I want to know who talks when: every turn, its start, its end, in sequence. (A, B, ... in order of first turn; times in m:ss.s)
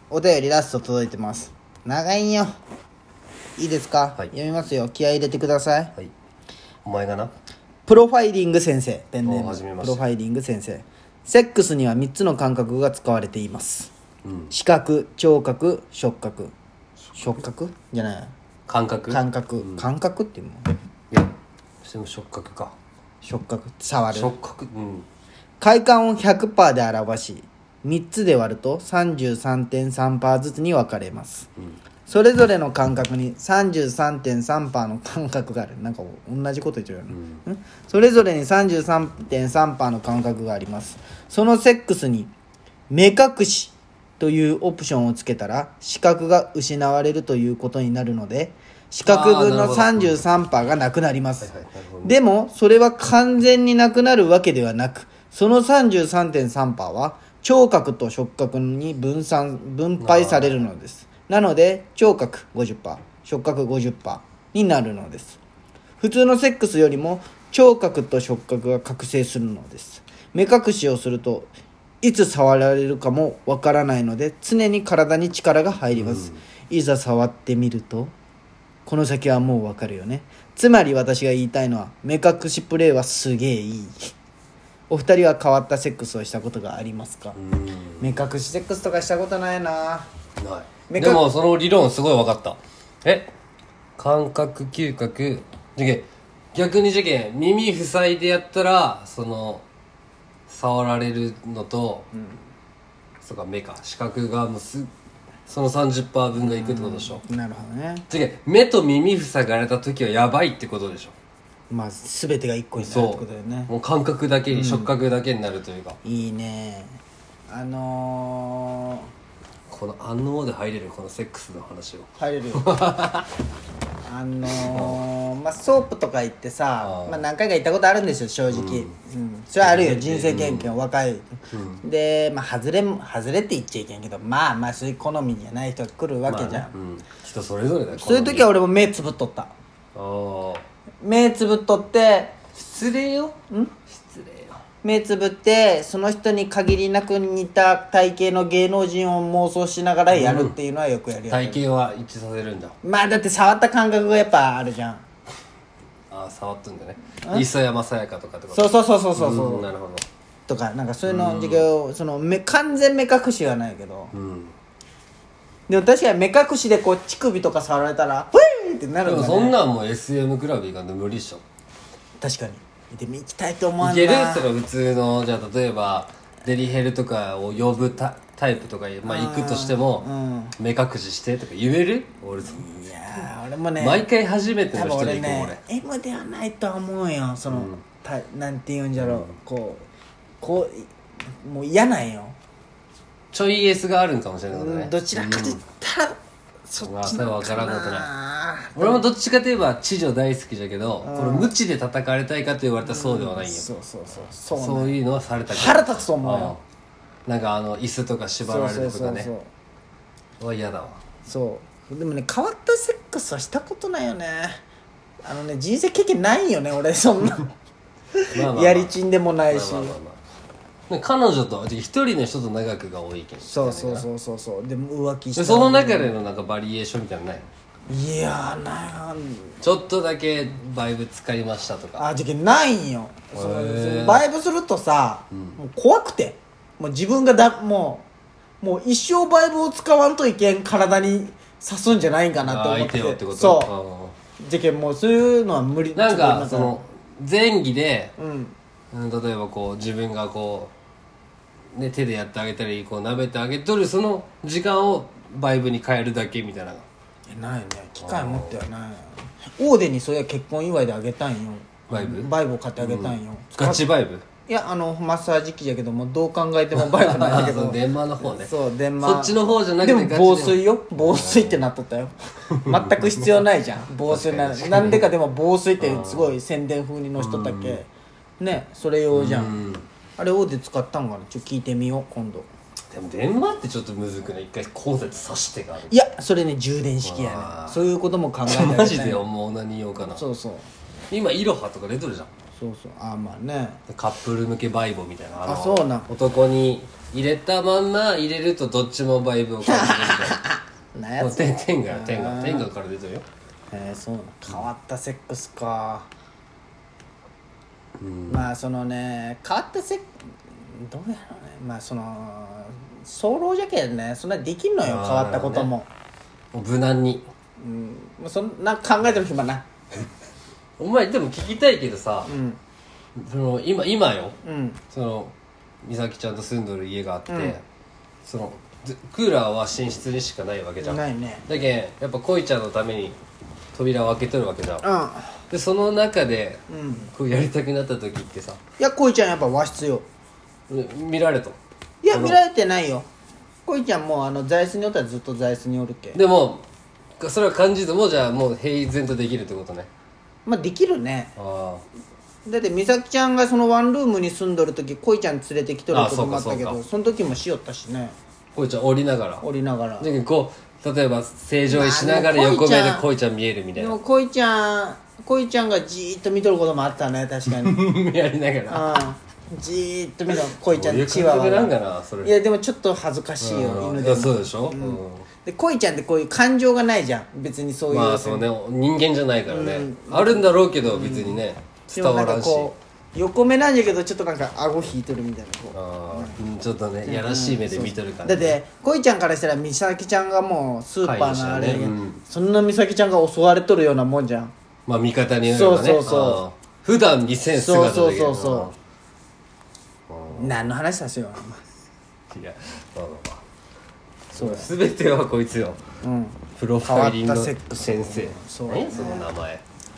0:00.1-0:02.5 A
0:03.6-0:05.9 A
0:06.8-0:07.3 B
0:07.9-0:13.9 A
0:09.2-0:10.0 B
0:14.2-0:14.5 B
0:14.5-0:16.5 A
0:17.1-0:18.3 A
0:18.7-0:19.8 B
0:19.1-0:20.7 A
0:21.1-0:22.7 B
0:23.2-0:24.3 A
0:24.1-0:25.0 B
0:25.6-0:31.5 A
0:32.1-0:42.3 A
0:37.1-0:37.4 B
0:42.9-0:51.5 A
0:49.0-0:50.2 B
0:51.4-0:52.1 B
0:52.0-1:05.4 A
1:00.0-1:00.6 B
1:06.0-1:18.1 A
1:15.9-1:16.4 B
1:18.8-1:24.1 A
1:24.9-1:27.4 A
1:27.4-1:28.2 B
1:28.0-1:30.1 A
1:30.4-1:33.3 B
1:30.9-1:31.2 A
1:34.0-1:39.6 B
1:40.5-1:42.1 B
1:42.1-1:42.4 A
1:43.2-1:44.9 B
1:45.5-1:47.2 B
1:46.4-1:48.0 A
1:48.1-1:51.1 B
1:51.7-1:53.7 A
1:52.8-1:56.0 B
1:54.5-1:54.9 A
1:56.0-1:59.1 A
1:59.7-2:03.3 B
2:02.2-2:02.7 A
2:04.0-2:11.2 A
2:04.7-2:05.0 B
2:06.8-2:07.2 B
2:08.5-2:08.9 B
2:09.6-2:10.7 B
2:11.5-2:11.8 B
2:11.8-2:16.7 A
2:16.3-2:18.5 B
2:17.9-2:19.5 A
2:19.9-2:20.6 B
2:21.0-2:22.4 A
2:22.5-2:24.6 B
2:24.8-2:31.6 A
2:30.1-2:30.5 B
2:31.3-2:32.8 B
2:32.8-2:35.0 A
2:36.1-2:40.0 B
2:38.5-2:39.7 A
2:40.5-2:44.1 A
2:41.1-2:41.7 B
2:44.1-2:44.5 B
2:45.7-2:49.6 A
2:49.0-2:51.4 B
2:52.2-2:54.5 A
2:53.8-3:00.1 B
2:59.0-3:00.5 A
3:00.6-3:02.6 B
3:02.4-3:04.0 A
3:03.8-3:05.6 B
3:04.7-3:09.8 A
3:07.5-3:07.8 B
3:09.0-3:09.3 B
3:10.4-3:10.9 A
3:11.4-3:12.4 A
3:13.3-3:15.6 B
3:14.5-3:19.0 A
3:16.8-3:18.1 B
3:18.8-3:23.7 B
3:21.0-3:21.5 A
3:22.8-3:25.0 A
3:24.5-3:26.6 B
3:25.5-3:26.6 A
3:27.2-3:29.3 B
3:28.4-3:29.5 A
3:30.4-3:31.0 B
3:31.2-3:34.6 A
3:35.2-3:37.5 A
3:38.1-3:39.9 A
3:38.3-3:38.9 B
3:39.5-3:40.2 B
3:40.9-3:44.0 B
3:43.4-3:46.2 A
3:45.4-3:47.5 B
3:47.9-3:49.6 A
3:49.6-3:52.0 B
3:52.0-3:58.1 A
3:53.3-3:54.2 B
3:55.3-3:55.6 B
3:58.6-4:03.7 A
4:02.4-4:04.2 B
4:04.4-4:06.8 A
4:06.0-4:08.1 B
4:08.2-4:08.6 A
4:08.9-4:10.7 B
4:11.7-4:16.8 B
4:17.3-4:23.8 A
4:18.0-4:18.6 B
4:21.9-4:24.2 B
4:24.4-4:39.5 A
4:26.7-4:31.6 B
4:32.6-4:33.3 B
4:34.0-4:35.1 B
4:35.8-4:36.4 B
4:37.2-4:37.8 B
4:39.1-4:39.8 B
4:40.2-4:42.5 A
4:42.9-4:46.0 B
4:45.9-4:49.3 A
4:47.0-4:47.8 B
4:48.4-4:50.2 B
4:50.1-4:50.7 A
4:51.1-4:52.3 B
4:52.6-4:53.8 A
4:53.9-5:00.4 B
4:55.4-4:56.1 A
4:59.6-5:02.7 A
5:01.2-5:03.2 B
5:03.7-5:06.1 A
5:08.0-5:08.5 B
5:08.3-5:10.1 A
5:10.7-5:15.9 A
5:14.8-5:15.7 B
5:16.5-5:17.3 B
5:17.6-5:19.7 A
5:20.8-5:22.3 B
5:22.2-5:22.6 A
5:23.2-5:24.4 B
5:24.4-5:24.8 A
5:24.9-5:27.6 B
5:27.3-5:27.6 A
5:28.2-5:33.2 B
5:30.8-5:31.4 A
5:33.7-5:34.9 B
5:34.8-5:35.4 A
5:35.5-5:38.6 B
5:36.7-5:37.1 A
5:38.8-5:40.0 A
5:40.7-5:42.4 B
5:42.0-5:43.1 A
5:43.6-5:46.2 A
5:46.1-5:46.6 B
5:47.2-5:49.9 B
5:50.4-5:51.3 A
5:51.4-5:51.8 B
5:52.4-5:58.1 A
5:55.9-5:56.8 B
5:58.5-5:59.4 B
5:59.4-6:00.1 A
6:00.0-6:04.0 B
6:01.7-6:03.0 A
6:03.8-6:07.8 A
6:07.4-6:09.0 B
6:08.7-6:18.4 A
6:10.7-6:12.4 B
6:13.4-6:15.3 B
6:17.9-6:22.7 B
6:19.5-6:26.4 A
6:25.7-6:28.6 B
6:27.0-6:34.5 A
6:31.0-6:32.2 B
6:34.8-6:38.7 B
6:35.4-6:36.4 A
6:37.5-6:38.7 A
6:40.1-6:40.6 B
6:40.4-6:41.6 A
6:42.3-6:43.4 B
6:44.3-6:44.7 A
6:44.3-6:45.8 B
6:46.0-6:49.3 A
6:46.6-6:49.6 B